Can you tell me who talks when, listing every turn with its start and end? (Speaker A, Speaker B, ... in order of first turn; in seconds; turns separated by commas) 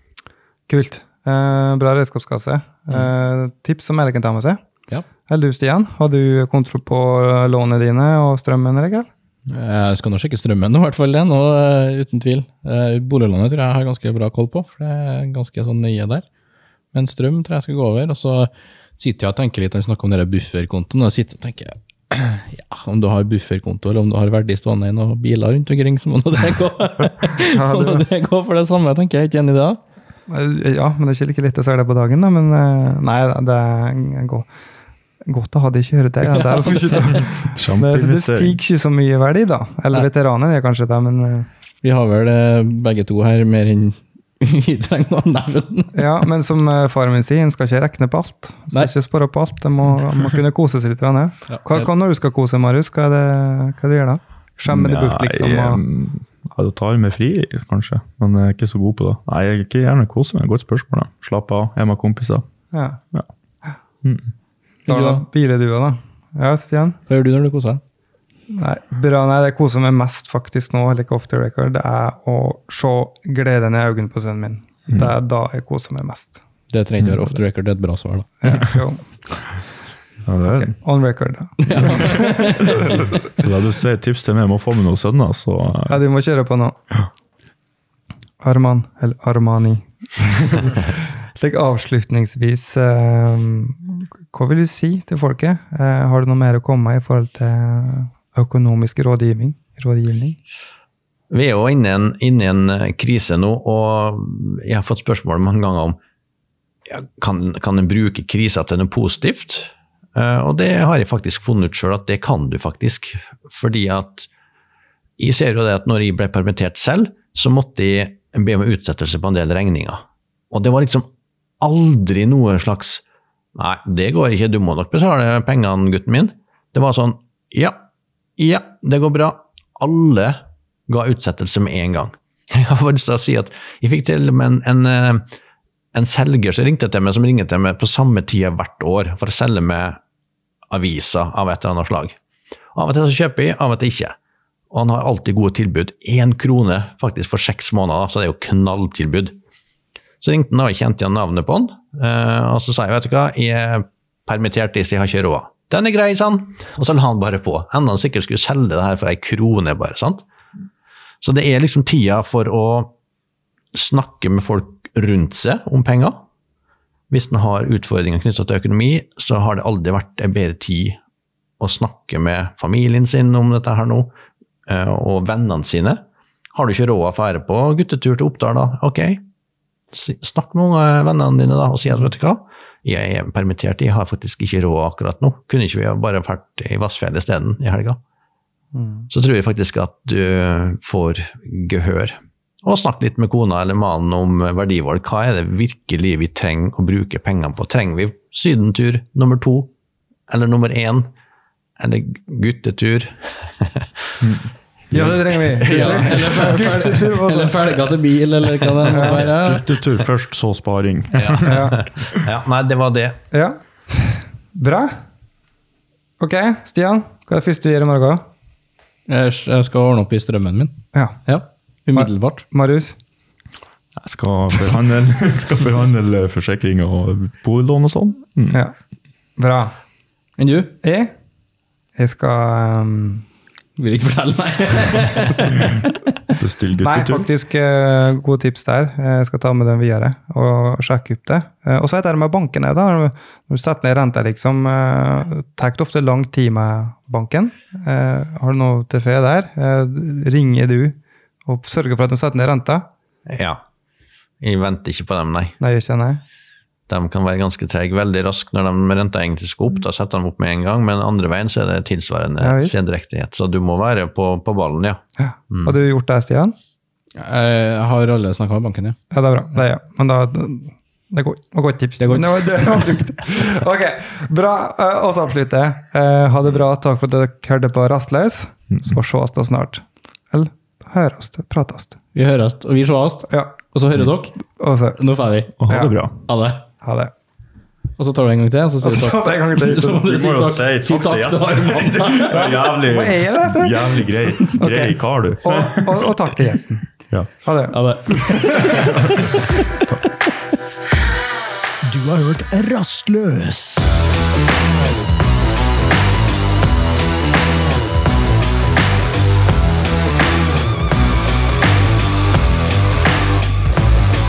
Speaker A: 0.7-4.6, Speaker A: 5.3-9.1, Speaker B: 9.5-16.2, Speaker B: 16.9-29.8, Speaker A: 27.4-28.0, Speaker A: 30.3-34.5, Speaker A: 35.2-41.5, Speaker C: 37.2-38.6, Speaker B: 41.8-46.1, Speaker A: 45.9-55.8, Speaker B: 51.5-51.9, Speaker C: 54.7-62.4, Speaker A: 62.7-63.0, Speaker C: 64.0-64.3, Speaker B: 64.8-65.2, Speaker A: 64.9-67.0, Speaker B: 67.1-67.8, Speaker A: 68.5-76.4, Speaker B: 76.7-78.3, Speaker A: 78.4-79.6, Speaker C: 80.2-80.8, Speaker A: 80.6-82.8, Speaker B: 81.6-83.0, Speaker C: 83.3-86.0, Speaker A: 85.9-86.8, Speaker A: 88.4-100.4, Speaker D: 101.3-106.0, Speaker D: 106.9-114.3, Speaker D: 115.2-121.1, Speaker D: 121.6-123.0, Speaker D: 123.5-127.8, Speaker D: 128.4-135.3, Speaker D: 135.9-140.0, Speaker D: 140.7-142.2, Speaker D: 142.7-144.1, Speaker D: 144.7-149.3, Speaker D: 150.2-160.2, Speaker D: 161.2-162.9, Speaker D: 163.7-166.2, Speaker D: 167.1-171.0, Speaker D: 171.6-174.1, Speaker D: 174.7-176.0, Speaker D: 176.5-179.2, Speaker D: 179.9-188.0, Speaker A: 188.7-189.1, Speaker D: 189.1-199.7, Speaker D: 200.3-201.1, Speaker D: 201.8-203.9, Speaker C: 204.2-205.2, Speaker A: 204.9-207.7, Speaker B: 205.7-209.6, Speaker A: 208.9-209.2, Speaker C: 209.0-212.2, Speaker D: 211.1-213.2, Speaker A: 211.4-211.8, Speaker A: 213.3-214.9, Speaker A: 216.2-218.2, Speaker B: 219.1-222.4, Speaker A: 221.9-223.0, Speaker C: 224.0-228.6, Speaker A: 229.4-229.7, Speaker B: 230.4-230.7, Speaker A: 230.8-231.1, Speaker A: 231.9-233.2, Speaker B: 233.8-236.0, Speaker C: 236.4-237.3, Speaker A: 236.8-252.8, Speaker D: 253.3-253.6, Speaker D: 254.4-255.6, Speaker A: 255.6-256.2, Speaker D: 256.9-265.8, Speaker A: 262.4-262.7, Speaker A: 265.2-266.5, Speaker B: 267.2-269.0, Speaker A: 269.1-282.0, Speaker B: 272.0-273.0, Speaker B: 282.1-286.6, Speaker A: 283.3-283.5, Speaker A: 284.5-285.0, Speaker C: 285.6-286.2, Speaker A: 285.7-285.9, Speaker A: 286.8-287.1, Speaker B: 288.0-292.6, Speaker A: 288.8-290.1, Speaker C: 290.0-296.1, Speaker A: 292.3-296.9, Speaker C: 297.1-299.3, Speaker A: 297.4-298.9, Speaker B: 297.8-299.8, Speaker E: 301.8-303.9